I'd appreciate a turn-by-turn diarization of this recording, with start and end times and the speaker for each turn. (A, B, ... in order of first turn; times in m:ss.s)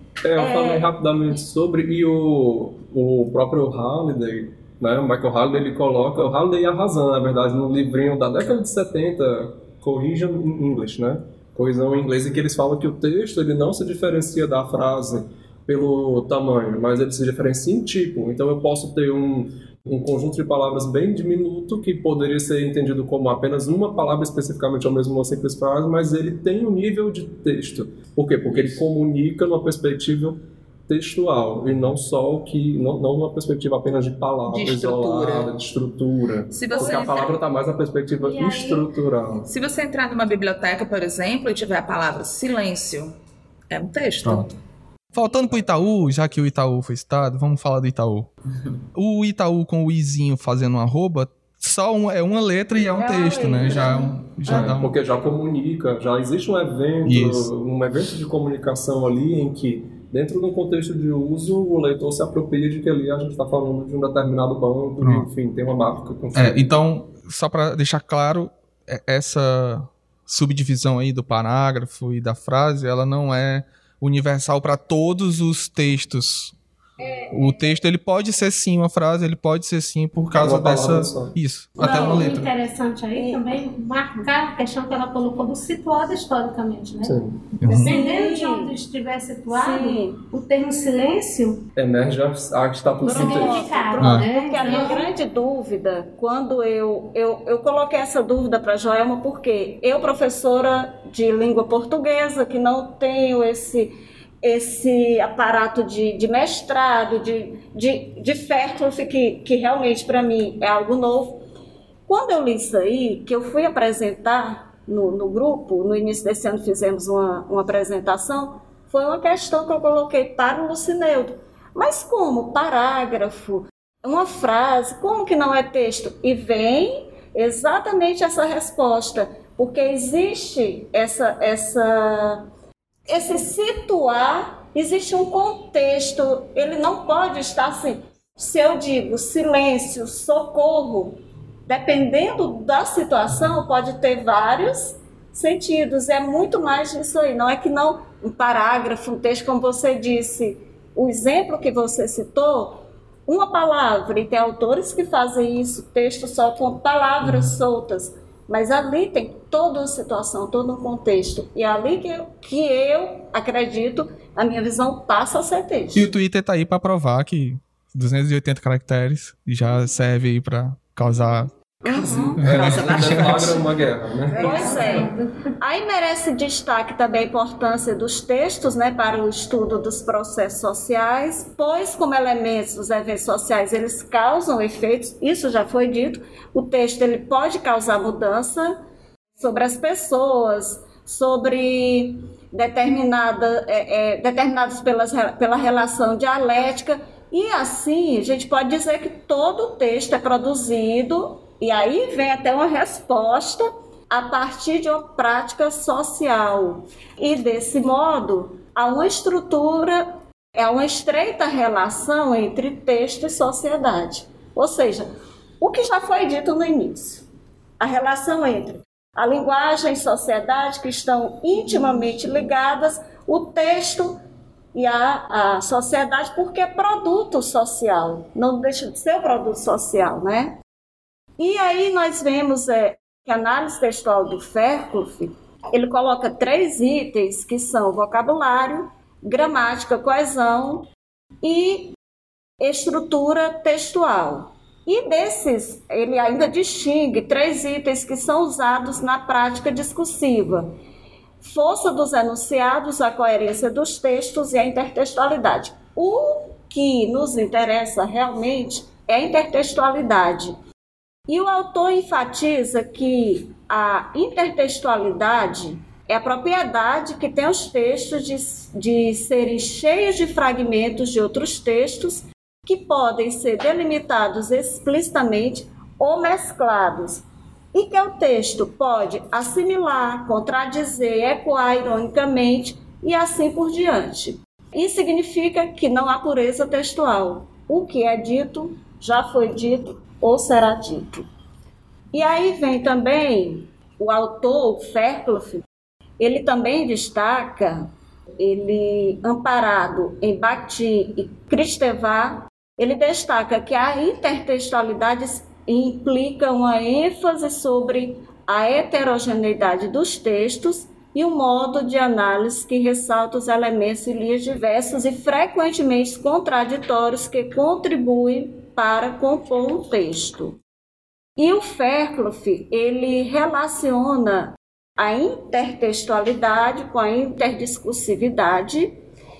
0:00.2-0:39.5 A
0:00.4-0:00.9 B
0:34.5-0:35.5 C
0:36.5-0:37.4 C
0:38.2-0:38.9 D
0:39.5-0:43.1 C
0:43.7-0:44.6 C
0:45.1-0:48.3 E
0:48.9-0:54.9 E
0:52.9-0:54.7 B
0:54.5-1:06.8 A
0:57.1-0:57.5 E
1:06.3-1:16.6 E
1:17.3-1:22.5 E
1:20.4-1:21.4 A
1:21.8-1:31.6 D
1:21.8-1:22.2 B
1:23.1-1:23.4 B
1:27.0-1:27.6 A
1:27.6-1:28.0 E
1:27.7-1:28.8 B
1:29.5-1:30.2 B
1:31.8-1:33.7 A
1:33.0-1:51.4 B
1:33.0-1:35.1 D
1:34.0-1:34.3 E
1:52.1-2:12.5 B
2:13.1-2:46.1 B
2:37.2-2:37.6 E
2:46.0-2:51.5 E
2:51.8-2:52.4 B
2:51.9-2:53.7 C
2:52.1-2:53.4 E
2:52.4-2:55.1 A
2:54.4-3:08.8 B
2:54.4-2:54.8 C
2:54.6-2:55.2 D
3:09.4-3:35.1 B
3:35.6-3:37.2 B
3:37.8-3:44.2 B
3:44.8-3:50.6 B
3:51.4-4:00.9 B
4:01.4-4:02.0 B
4:02.6-4:10.8 B
4:11.4-4:20.6 B
4:21.3-4:51.3 B
4:52.1-4:55.6 B
4:56.2-5:20.6 B
5:21.4-5:29.0 B